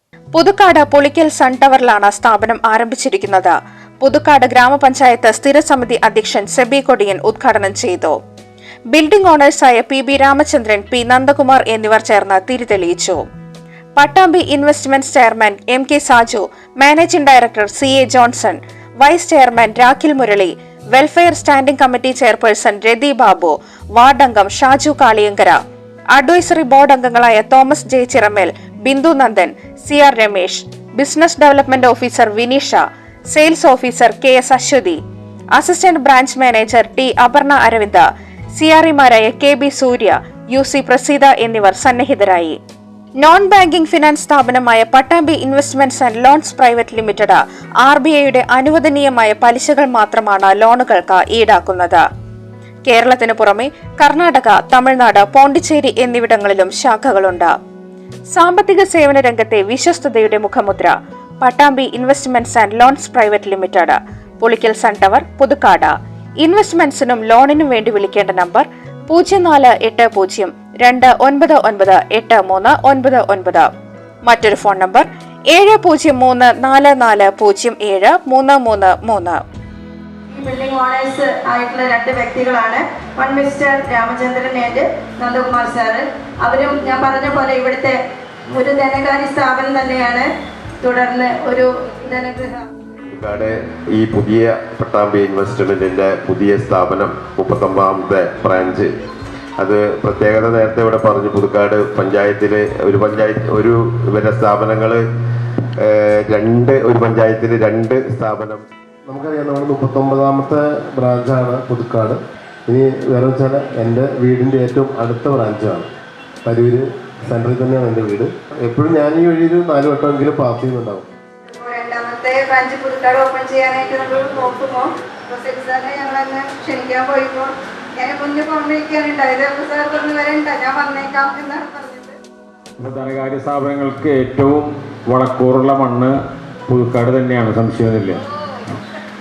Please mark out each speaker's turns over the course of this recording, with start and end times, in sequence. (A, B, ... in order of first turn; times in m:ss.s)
0:00.4-0:08.2 A
0:08.9-0:13.2 A
0:14.0-0:25.6 A
0:26.1-0:32.8 A
0:33.3-0:35.0 A
0:35.6-0:38.0 A
0:38.6-0:42.6 A
0:43.2-0:52.0 A
0:52.9-0:57.5 A
0:58.3-1:13.7 A
1:14.2-1:19.4 A
1:20.3-1:28.0 B
1:28.5-1:30.3 B
1:30.8-1:32.6 B
1:33.1-1:39.0 C
1:39.6-1:45.0 C
1:45.9-1:48.6 C
1:49.1-1:55.9 D
1:56.4-2:01.1 D
2:01.5-2:12.2 B
2:12.8-2:16.1 E
2:16.7-2:18.8 E